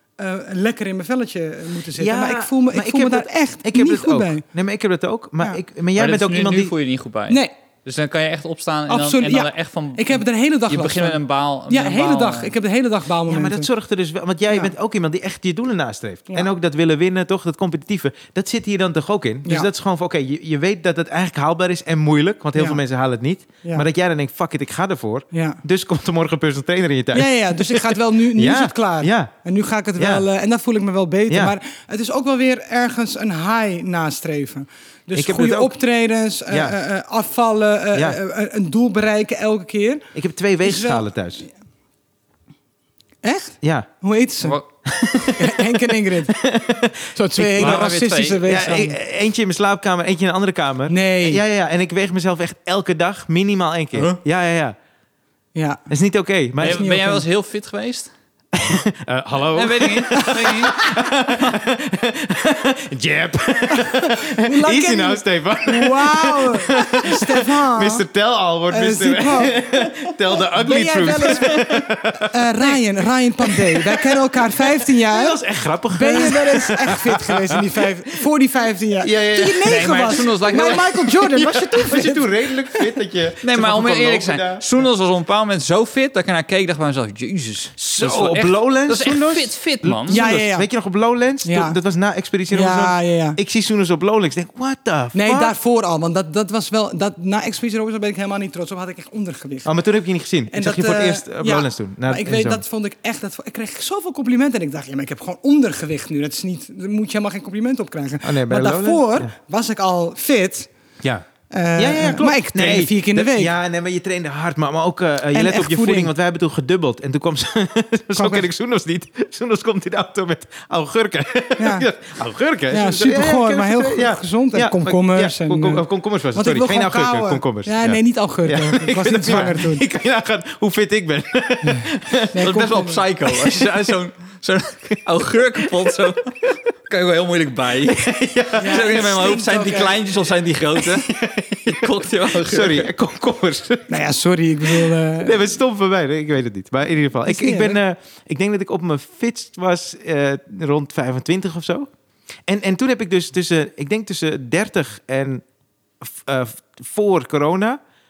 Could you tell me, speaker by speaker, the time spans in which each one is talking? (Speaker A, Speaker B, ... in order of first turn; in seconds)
Speaker A: 0.2-4.4, 8.9-13.7, 22.6-22.8, 25.3-25.6, 27.1-40.1, 40.6-41.1, 43.2-44.6, 45.3-46.4, 47.1-49.0, 50.9-51.4, 55.5-55.8, 56.6-57.2, 60.2-60.8, 63.7-68.0, 68.7-75.4, 75.9-82.9, 90.1-90.7, 91.4-91.8, 92.5-93.4, 95.1-99.7, 100.5-110.7, 111.5-113.5, 115.3-116.1, 118.2-118.5, 121.6-121.9, 122.7-129.8, 132.3-133.0, 138.6-140.0, 143.9-145.4, 147.3-147.8
Speaker B: 2.0-6.7, 13.3-29.3, 30.0-30.2, 31.3-31.5, 35.1-35.7, 36.5-36.8, 37.9-38.2, 40.1-41.4, 43.6-43.9, 44.9-45.5, 46.3-47.9, 48.4-54.8, 55.9-56.9, 58.5-72.4, 73.5-77.8, 79.0-84.8, 87.8-95.5, 99.6-102.6, 108.2-109.3, 111.0-132.5, 133.3-133.7, 137.8-139.3, 140.8-143.9, 144.7-151.9, 152.5-155.4, 156.0-157.8
Speaker C: 6.0-12.5, 47.4-48.8, 53.9-54.2, 56.6-58.1, 59.5-60.8, 79.6-80.9, 83.4-90.2, 132.4-142.9